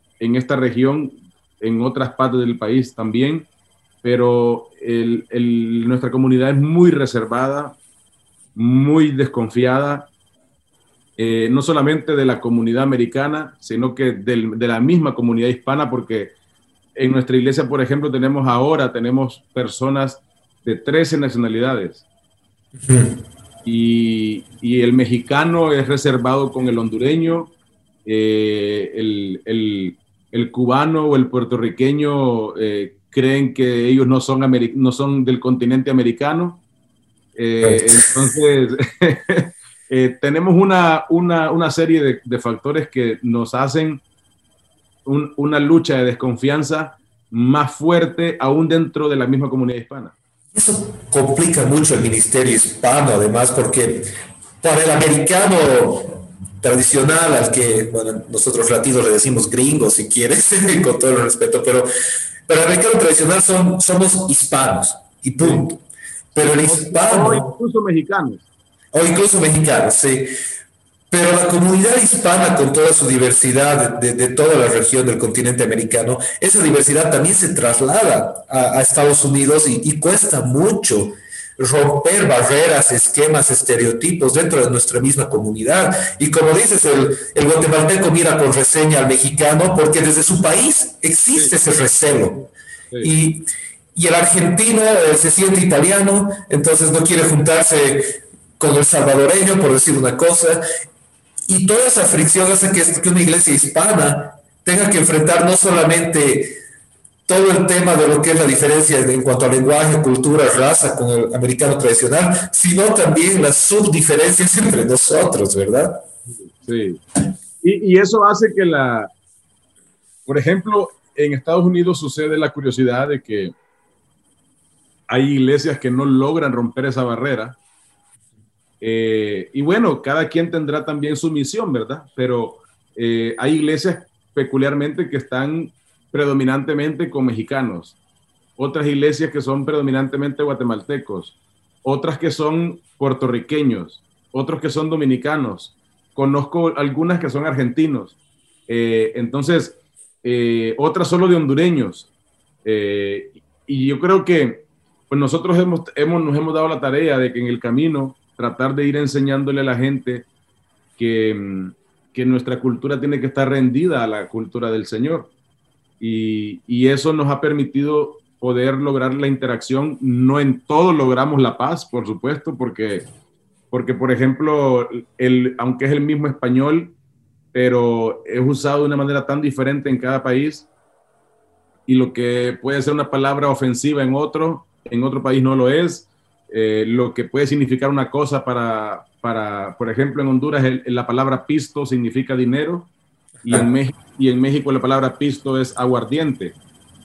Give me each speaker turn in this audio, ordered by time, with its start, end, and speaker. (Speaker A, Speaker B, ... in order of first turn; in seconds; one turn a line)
Speaker A: 0.2-3.5
Speaker A: 4.0-7.8
Speaker A: 8.6-10.1
Speaker A: 11.2-16.4
Speaker A: 17.0-22.1
Speaker B: 22.8-23.2
Speaker A: 23.6-27.5
Speaker A: 28.1-36.6
Speaker A: 37.4-44.0
Speaker B: 37.6-38.1
Speaker A: 45.0-50.2
Speaker B: 50.5-54.1
Speaker B: 54.6-61.9
Speaker B: 62.5-65.8
Speaker A: 65.4-65.6
Speaker B: 66.3-67.5
Speaker A: 66.4-68.5
Speaker B: 68.9-70.3
Speaker B: 71.1-92.5
Speaker B: 93.0-100.6
Speaker B: 101.5-106.6
Speaker B: 107.3-116.0
Speaker A: 116.4-117.0
Speaker A: 117.6-119.1
Speaker A: 120.3-123.5
Speaker A: 125.1-127.6
Speaker A: 128.8-138.0
Speaker A: 138.6-148.2
Speaker A: 148.7-152.1
Speaker A: 152.6-160.3
Speaker A: 161.0-165.3
Speaker A: 166.0-173.1
Speaker A: 173.7-176.9
Speaker A: 177.5-180.7
Speaker A: 181.9-192.9
Speaker A: 193.4-196.6